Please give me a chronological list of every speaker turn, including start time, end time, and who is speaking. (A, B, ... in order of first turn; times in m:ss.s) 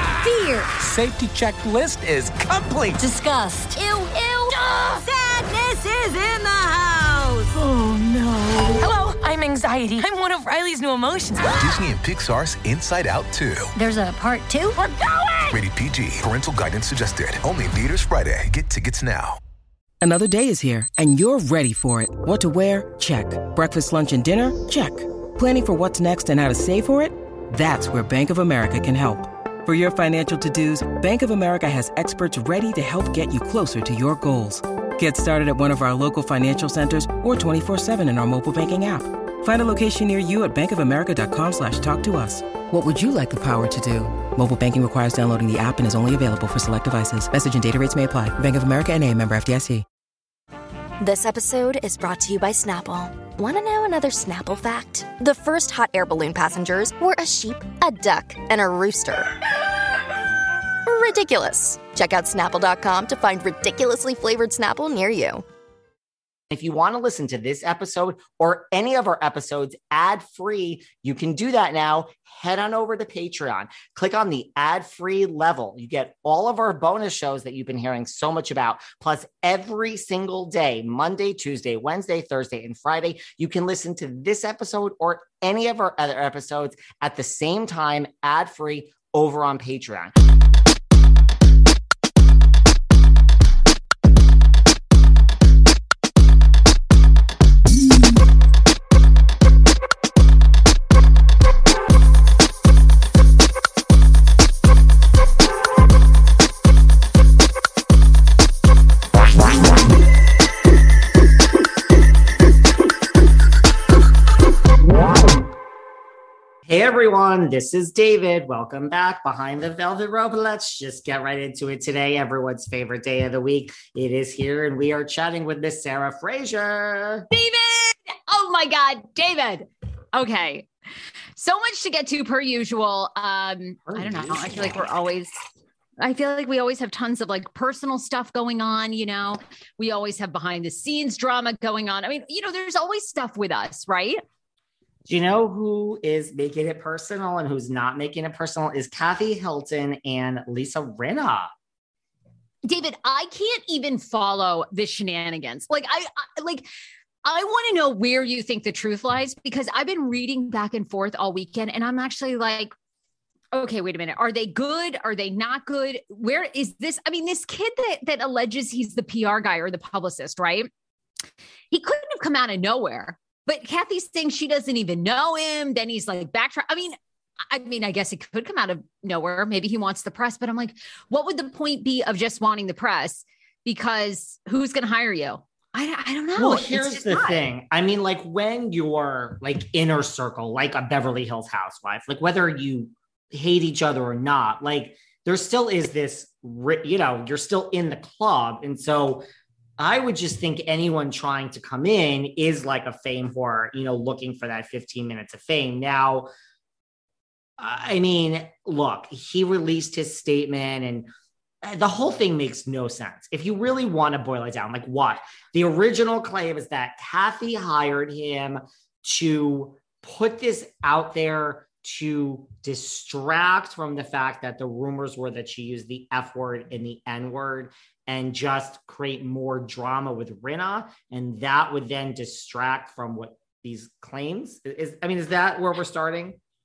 0:00.2-0:00.7 A
0:00.9-0:02.9 B
0:03.0-0:07.5 A
0:04.2-0:04.4 C
0:08.6-0:11.4 C
0:11.6-0:13.7 B
0:13.8-0:15.4 A
0:15.5-0:19.4 B
0:20.0-0:49.8 D
0:51.0-0:59.3 E
1:00.9-1:05.4 E
1:06.5-1:30.2 F
1:56.7-2:07.3 F
2:07.3-2:10.7 G
2:11.4-2:15.4 G
2:13.9-2:15.0 F
2:16.0-2:24.2 G
2:25.1-2:31.5 F
2:32.7-2:36.7 G
2:37.2-2:42.7 G
2:43.5-2:50.7 G
2:51.7-2:57.0 G
2:57.5-3:07.4 G
3:06.4-3:19.3 F
3:19.8-3:26.3 F
3:27.6-3:31.1 F
3:31.6-3:56.4 F